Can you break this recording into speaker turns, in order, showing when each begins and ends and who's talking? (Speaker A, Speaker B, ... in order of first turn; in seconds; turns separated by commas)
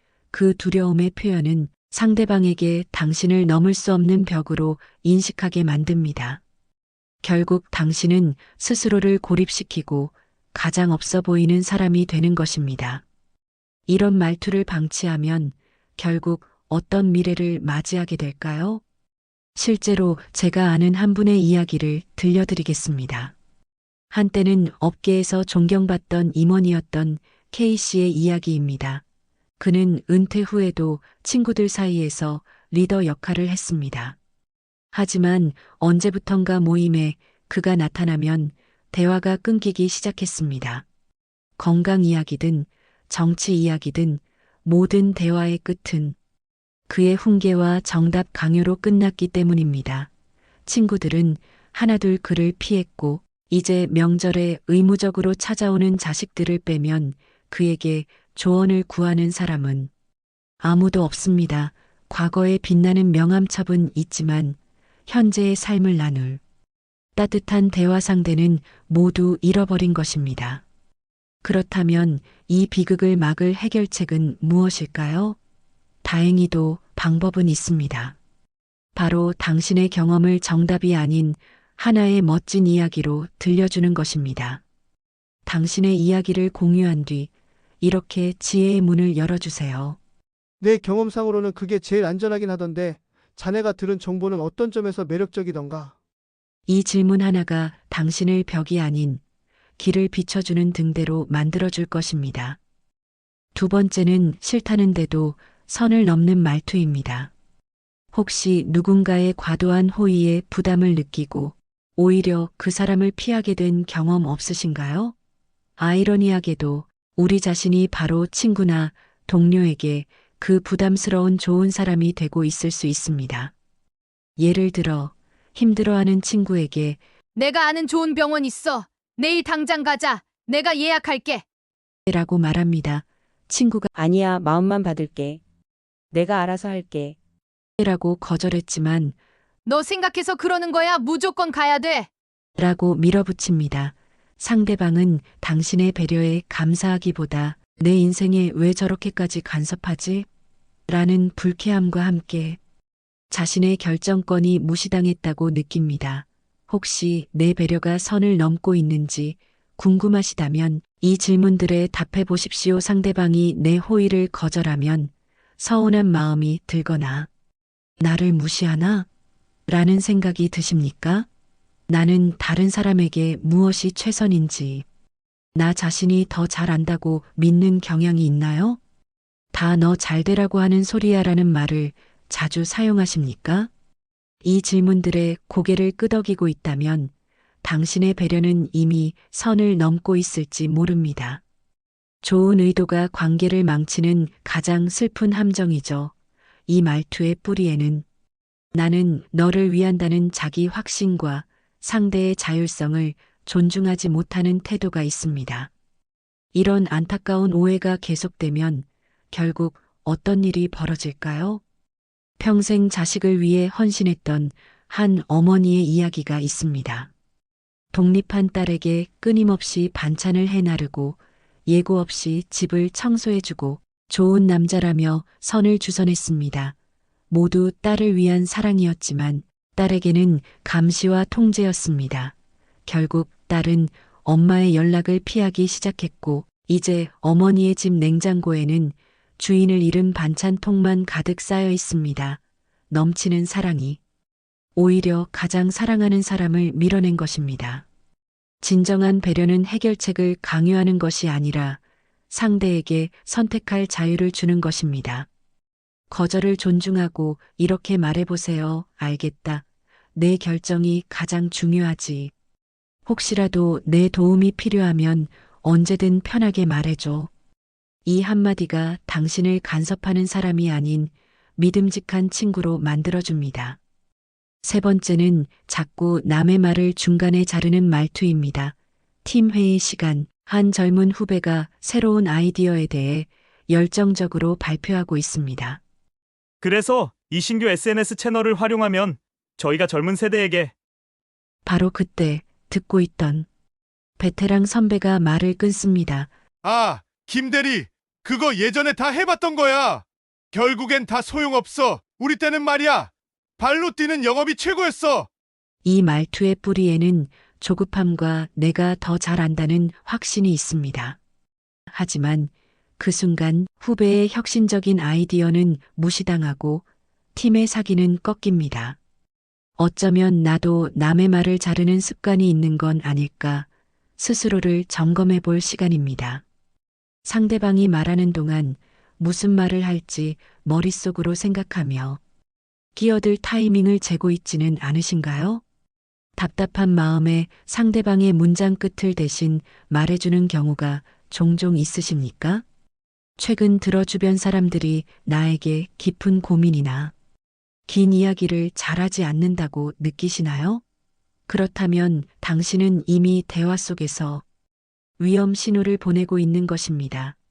Speaker A: 0.3-6.4, Speaker A: 7.2-13.0, Speaker A: 13.9-18.8, Speaker A: 19.6-23.4, Speaker A: 24.1-29.0, Speaker A: 29.6-34.2, Speaker A: 34.9-40.9, Speaker A: 41.6-46.2, Speaker A: 46.9-50.1, Speaker A: 50.7-59.9, Speaker A: 60.6-64.6, Speaker A: 65.1-66.4, Speaker A: 67.2-70.6, Speaker A: 71.4-75.4, Speaker A: 76.0-78.2, Speaker A: 79.0-84.6, Speaker A: 85.5-87.3, Speaker A: 87.8-90.0, Speaker B: 90.6-95.9, Speaker A: 96.7-99.2, Speaker A: 99.8-102.6, Speaker A: 103.5-107.3, Speaker A: 108.1-115.2, Speaker A: 115.8-123.5, Speaker A: 124.4-127.0, Speaker C: 127.4-131.4, Speaker A: 132.1-133.9, Speaker D: 133.9-135.4, Speaker D: 136.1-137.2, Speaker A: 137.8-139.2, Speaker C: 139.7-142.1, Speaker A: 142.6-150.3, Speaker A: 150.9-152.6, Speaker A: 153.3-167.3, Speaker A: 168.0-169.1, Speaker A: 169.7-171.3, Speaker A: 171.9-174.9, Speaker A: 175.6-178.8, Speaker A: 179.5-183.7, Speaker A: 184.4-187.1, Speaker A: 187.6-191.4, Speaker A: 192.2-196.1, Speaker A: 196.7-198.1, Speaker A: 198.8-205.7, Speaker A: 206.5-211.6, Speaker A: 212.4-217.1, Speaker A: 217.9-226.8, Speaker A: 227.3-232.3, Speaker A: 232.9-244.0, Speaker A: 244.8-247.9, Speaker A: 248.6-255.3, Speaker A: 256.1-262.3, Speaker A: 263.1-267.3, Speaker A: 268.1-273.8, Speaker A: 274.6-285.8, Speaker E: 286.6-290.7, Speaker A: 291.7-293.5, Speaker A: 294.2-296.3, Speaker F: 296.6-305.3, Speaker A: 305.8-311.2, Speaker A: 311.9-319.0, Speaker A: 319.8-326.4, Speaker A: 327.3-332.2, Speaker A: 332.9-335.6, Speaker A: 336.4-342.6, Speaker A: 343.4-347.1, Speaker A: 347.9-350.8, Speaker A: 351.5-354.4, Speaker A: 355.2-357.4